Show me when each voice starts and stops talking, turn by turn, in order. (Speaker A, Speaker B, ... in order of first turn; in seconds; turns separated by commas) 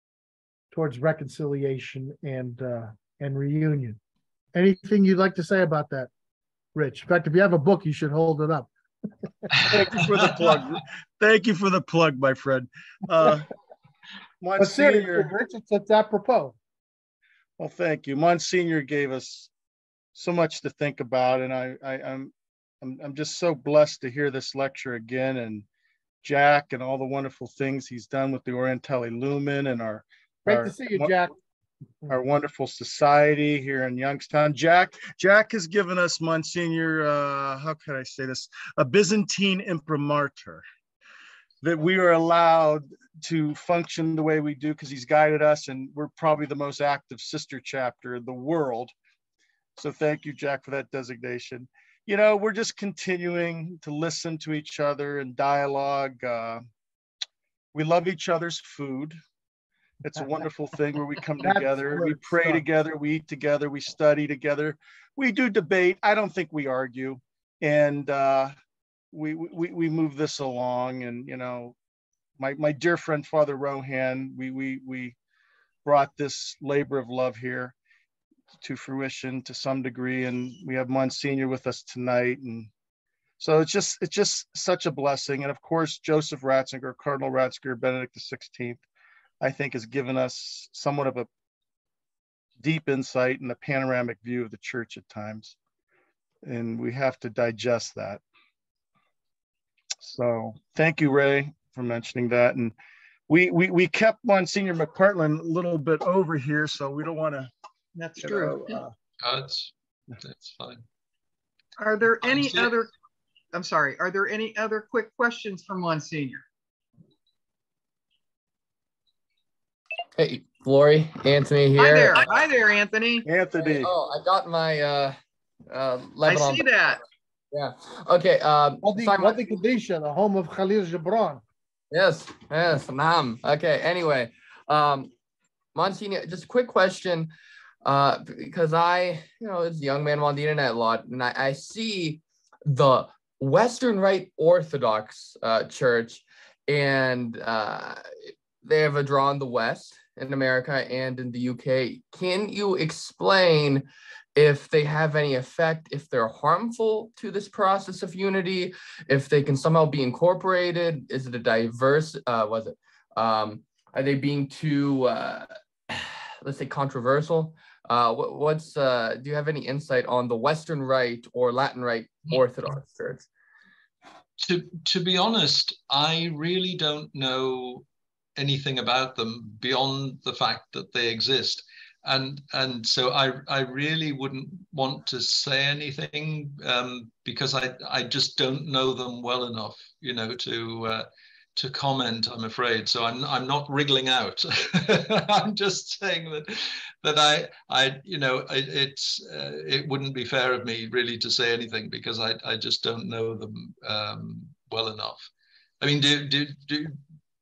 Speaker A: 0.7-4.0, Speaker A: 4.5-6.1, Speaker A: 6.7-8.7, Speaker A: 9.7-10.0, Speaker B: 9.7-13.4, Speaker B: 14.4-15.3, Speaker A: 14.6-16.6, Speaker B: 17.6-19.5, Speaker B: 20.1-25.6, Speaker B: 26.2-31.1, Speaker A: 30.4-31.4, Speaker B: 32.1-40.6, Speaker B: 41.6-48.9, Speaker B: 49.8-56.6, Speaker B: 57.7-59.2, Speaker B: 60.0-68.5, Speaker A: 61.4-62.6, Speaker B: 69.1-71.8, Speaker B: 72.4-75.2, Speaker B: 75.8-77.8, Speaker B: 78.6-82.7, Speaker B: 83.4-88.8, Speaker B: 89.4-91.3, Speaker B: 92.6-95.5, Speaker B: 96.4-98.2, Speaker B: 100.0-102.7, Speaker B: 103.3-107.5, Speaker C: 108.0-108.8, Speaker B: 108.2-108.9, Speaker D: 109.2-110.8, Speaker C: 111.8-112.9, Speaker D: 112.2-112.7, Speaker C: 113.5-116.4, Speaker E: 120.2-122.2, Speaker C: 121.8-123.2, Speaker B: 123.2-123.9, Speaker E: 123.7-125.2, Speaker E: 125.7-126.7, Speaker C: 126.2-127.0, Speaker E: 127.5-129.4, Speaker A: 128.8-131.4, Speaker E: 131.9-135.1, Speaker E: 135.7-137.3, Speaker E: 137.8-148.0, Speaker E: 148.6-165.5, Speaker E: 166.4-173.3, Speaker D: 174.4-177.8, Speaker D: 178.4-205.3, Speaker D: 205.8-207.0